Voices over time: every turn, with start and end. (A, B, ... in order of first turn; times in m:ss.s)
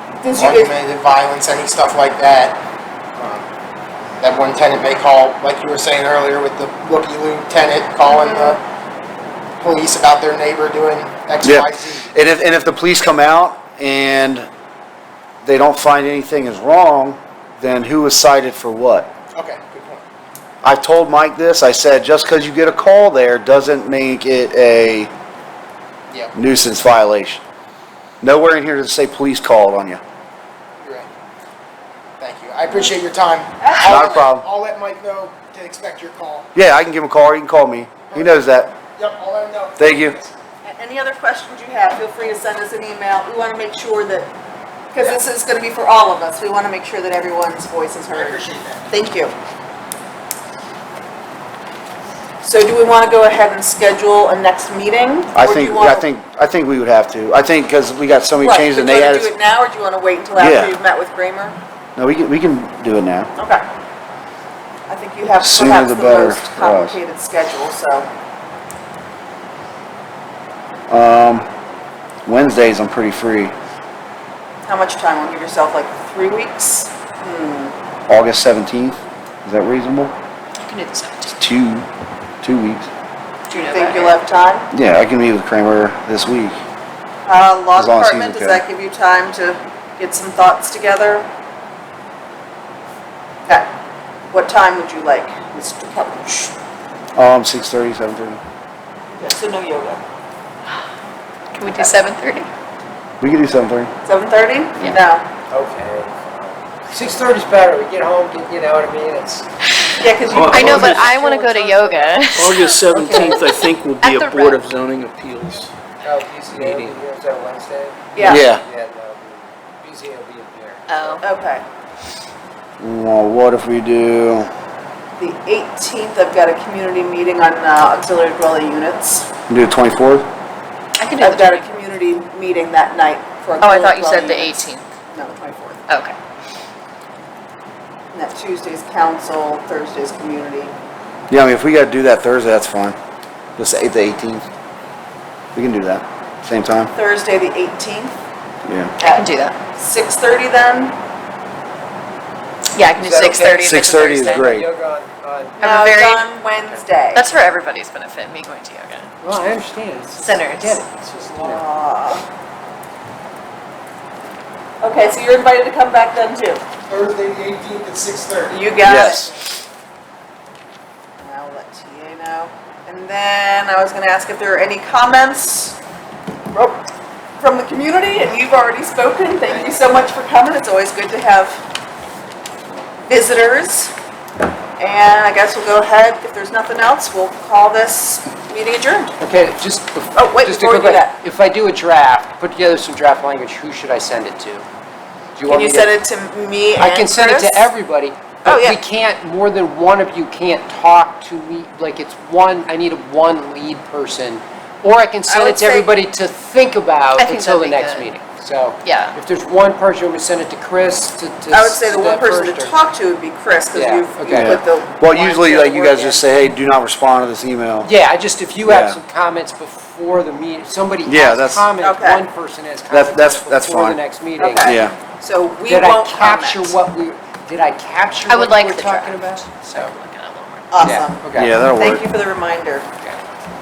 0:00.2-0:00.8 A
0:00.4-0:02.6 B
0:03.2-0:03.5 B
0:04.2-0:08.6 B
0:08.1-0:08.6 A
0:09.6-0:12.1 B
0:11.4-0:14.5 C
0:15.4-0:19.1 C
0:19.3-0:20.0 B
0:20.6-0:25.1 C
0:26.3-0:27.4 C
0:28.2-0:30.0 C
0:30.8-0:31.1 B
0:32.2-0:36.5 B
0:33.6-0:34.3 A
0:33.8-0:34.4 C
0:36.6-0:38.8 C
0:38.1-0:38.4 B
0:39.0-0:40.3 B
0:39.8-0:40.2 C
0:40.6-0:44.3 A
0:44.9-0:49.4 A
0:48.1-0:48.8 B
0:52.4-0:56.1 A
0:55.4-0:59.3 C
0:58.4-1:01.6 A
1:00.4-1:00.8 C
1:02.0-1:03.3 C
1:03.4-1:03.6 A
1:04.9-1:08.1 A
1:05.4-1:07.0 C
1:10.9-1:11.5 C
1:12.3-1:13.6 C
1:14.7-1:17.8 A
1:18.1-1:20.2 C
1:20.6-1:21.4 D
1:21.4-1:21.9 C
1:22.4-1:22.9 C
1:23.5-1:24.7 A
1:23.5-1:24.2 D
1:24.7-1:26.6 C
1:27.2-1:31.3 A
1:27.8-1:28.6 C
1:34.3-1:36.5 A
1:37.2-1:38.4 C
1:39.1-1:40.0 A
1:41.5-1:42.5 D
1:41.7-1:42.0 A
1:43.2-1:43.9 C
1:44.0-1:45.3 A
1:45.5-1:49.5 E
1:50.0-1:52.3 A
1:50.3-1:51.1 F
1:50.5-1:52.5 D
1:52.3-1:55.7 F
1:52.9-1:53.4 E
1:53.2-1:53.5 D
1:54.0-1:54.6 D
1:56.0-2:00.9 E
1:56.5-1:57.0 F
1:58.1-1:58.5 A
1:58.2-1:58.6 C
2:00.9-2:01.2 D
2:01.2-2:01.6 A
2:02.8-2:04.5 C
2:05.2-2:09.3 A
2:09.5-2:10.3 C
2:11.0-2:11.8 D
2:11.2-2:15.8 A
2:13.6-2:14.9 D
2:15.9-2:16.2 D
2:18.1-2:20.7 A
2:21.3-2:23.0 C
2:23.6-2:24.5 C
2:25.6-2:26.9 C
2:26.9-2:28.2 A
2:28.7-2:28.9 C
2:29.0-2:31.0 A
2:29.0-2:29.6 D
2:32.8-2:34.5 D
2:33.0-2:35.6 E
2:33.6-2:34.7 C
2:35.6-2:36.3 D
2:35.6-2:37.3 A
2:37.2-2:39.1 D
2:39.2-2:41.6 E
2:40.1-2:40.9 D
2:41.2-2:42.3 A
2:44.8-2:46.6 A
2:46.9-2:48.6 B
2:48.5-2:49.3 A
2:48.8-2:49.3 C
2:51.2-2:55.8 A
2:56.5-2:56.8 A
2:57.4-3:01.7 A
3:03.1-3:03.9 A
3:04.8-3:09.1 A
3:09.2-3:14.7 E
3:10.2-3:11.2 A
3:15.4-3:16.0 E
3:15.4-3:17.7 A
3:16.8-3:32.8 E
3:18.4-3:18.8 A
3:25.3-3:25.9 A
3:27.2-3:28.1 D
3:28.8-3:29.2 D
3:31.5-3:36.2 A
3:33.7-3:34.6 E
3:34.3-3:37.9 C
3:37.8-3:44.8 E
3:38.6-3:39.0 C
3:41.1-3:41.7 C
3:41.8-3:42.2 A
3:42.9-3:44.0 C
3:44.4-3:46.8 A
3:44.6-3:45.0 C
3:45.7-3:49.9 E
3:48.3-3:50.7 D
3:50.7-3:52.9 A
3:50.8-3:51.5 E
3:51.3-3:52.0 C